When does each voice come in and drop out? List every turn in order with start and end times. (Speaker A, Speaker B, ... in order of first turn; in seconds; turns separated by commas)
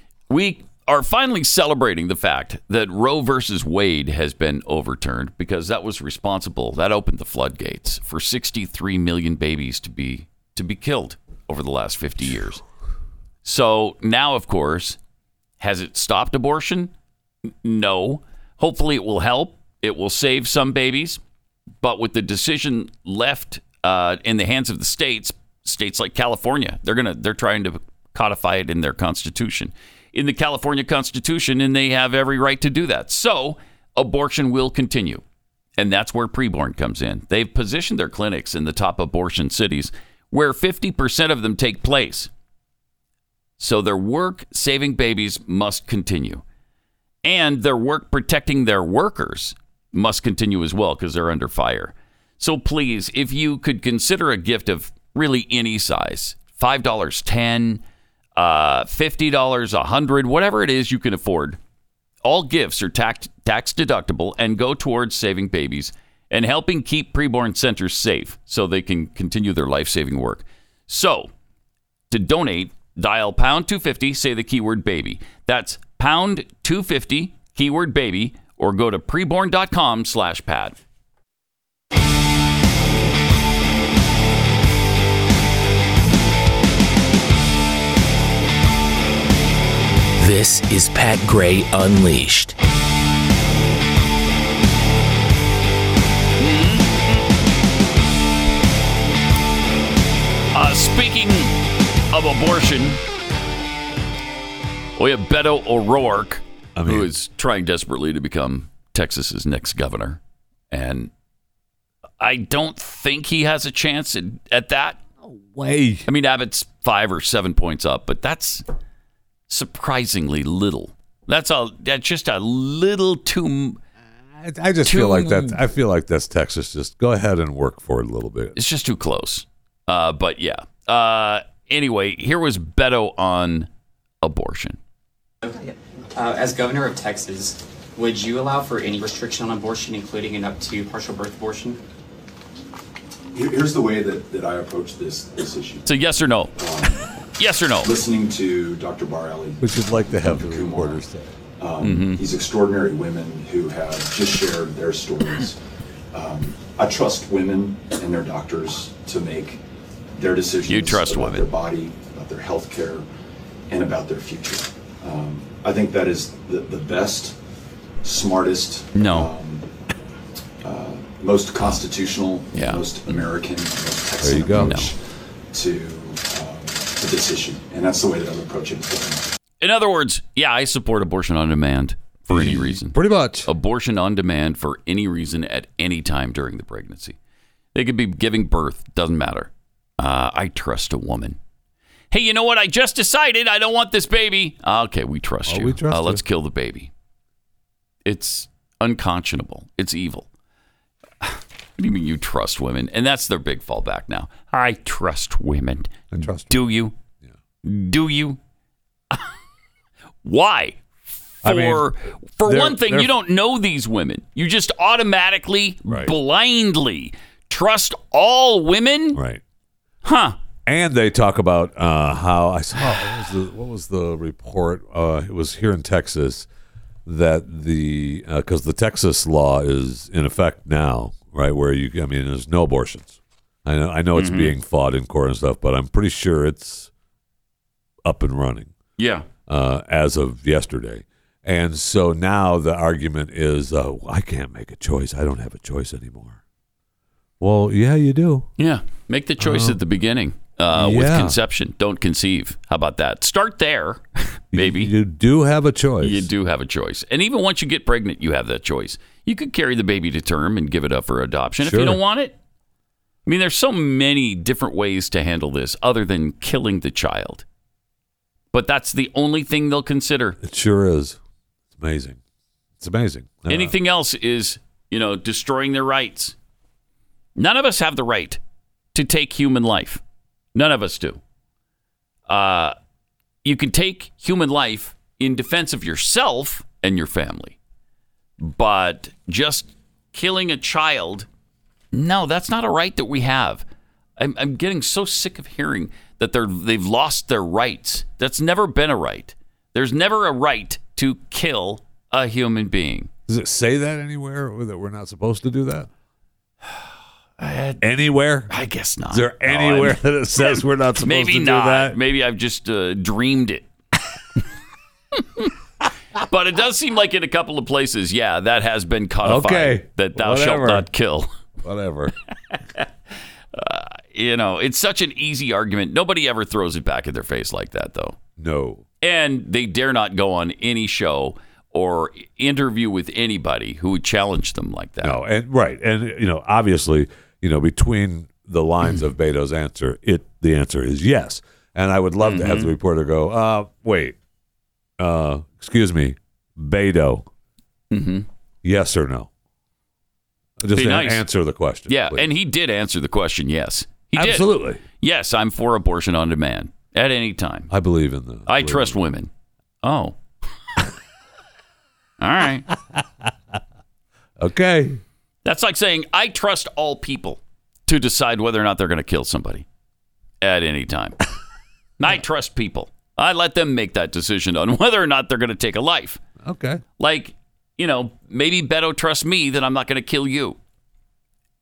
Speaker A: 0.3-12.6, Speaker A: 13.4-15.0, Speaker A: 15.6-16.9, Speaker A: 17.6-21.2, Speaker A: 21.8-35.2, Speaker A: 35.8-42.3, Speaker A: 43.6-46.4, Speaker A: 47.2-57.8, Speaker A: 58.4-61.6, Speaker A: 62.2-71.3, Speaker A: 72.1-80.8, Speaker B: 90.2-92.5, Speaker A: 96.4-97.0, Speaker A: 100.5-101.5, Speaker A: 102.1-103.0, Speaker A: 105.0-110.2, Speaker C: 106.8-107.1, Speaker A: 110.7-111.1, Speaker A: 112.2-115.0, Speaker C: 115.2-116.1, Speaker A: 116.1-118.6, Speaker A: 119.5-123.8, Speaker C: 124.3-128.6, Speaker A: 124.8-125.6, Speaker A: 128.6-133.7, Speaker A: 134.2-134.8, Speaker D: 135.4-141.8, Speaker E: 143.3-145.8, Speaker A: 145.8-146.6, Speaker E: 146.6-147.1, Speaker A: 147.4-147.9, Speaker E: 147.8-151.0, Speaker C: 149.6-151.3, Speaker E: 151.6-155.6, Speaker A: 151.8-152.2, Speaker E: 156.1-159.6, Speaker E: 160.1-163.0, Speaker A: 160.7-161.5, Speaker E: 163.7-167.3, Speaker E: 168.0-169.7, Speaker A: 168.9-169.3, Speaker E: 170.6-175.0, Speaker A: 172.5-172.8, Speaker C: 174.2-174.8, Speaker A: 174.5-174.9, Speaker E: 175.5-179.3, Speaker A: 179.6-187.2, Speaker C: 182.3-183.5, Speaker A: 187.7-191.4, Speaker A: 192.1-196.9, Speaker C: 195.4-196.2, Speaker A: 198.0-200.3, Speaker A: 201.2-206.9, Speaker C: 206.1-206.6, Speaker A: 207.6-208.4, Speaker A: 210.2-219.2, Speaker C: 211.4-213.1, Speaker C: 215.9-216.1, Speaker C: 219.1-219.4, Speaker A: 220.0-220.4, Speaker C: 220.7-226.5, Speaker C: 227.1-236.9, Speaker A: 234.1-234.5, Speaker C: 238.0-238.7, Speaker A: 239.0-239.3, Speaker C: 239.5-246.4, Speaker C: 247.4-248.5, Speaker A: 248.6-254.9, Speaker C: 249.4-249.8, Speaker C: 250.7-251.4, Speaker C: 254.5-256.3, Speaker A: 256.0-262.4, Speaker C: 261.6-262.0, Speaker A: 263.2-267.4, Speaker A: 268.5-270.4, Speaker C: 270.4-271.2, Speaker C: 271.7-272.2, Speaker C: 272.8-273.7, Speaker A: 273.5-276.3, Speaker A: 277.4-278.4, Speaker A: 278.9-280.0, Speaker A: 280.5-281.2, Speaker A: 282.3-282.7, Speaker A: 283.4-287.6, Speaker A: 288.4-291.3, Speaker A: 291.9-293.6, Speaker A: 294.2-303.1, Speaker C: 303.3-305.9, Speaker A: 307.4-307.8, Speaker C: 307.8-308.5, Speaker A: 308.5-313.7, Speaker C: 309.1-312.0, Speaker A: 316.2-321.3, Speaker C: 319.2-320.9, Speaker C: 321.6-322.1, Speaker A: 323.5-328.2, Speaker C: 328.4-328.8, Speaker A: 329.0-335.2, Speaker C: 335.0-344.1, Speaker A: 342.2-342.7, Speaker C: 345.0-347.2, Speaker A: 347.9-348.3, Speaker C: 348.6-349.3, Speaker C: 350.6-352.3, Speaker A: 350.7-351.2, Speaker A: 351.9-357.7, Speaker C: 354.1-354.8, Speaker C: 357.7-359.0, Speaker A: 358.5-359.3, Speaker A: 359.8-360.2, Speaker A: 362.2-362.7, Speaker C: 362.7-363.3, Speaker C: 364.4-365.0, Speaker A: 365.4-369.6, Speaker A: 370.4-371.2, Speaker A: 372.0-376.2, Speaker C: 376.4-376.8, Speaker A: 377.0-380.6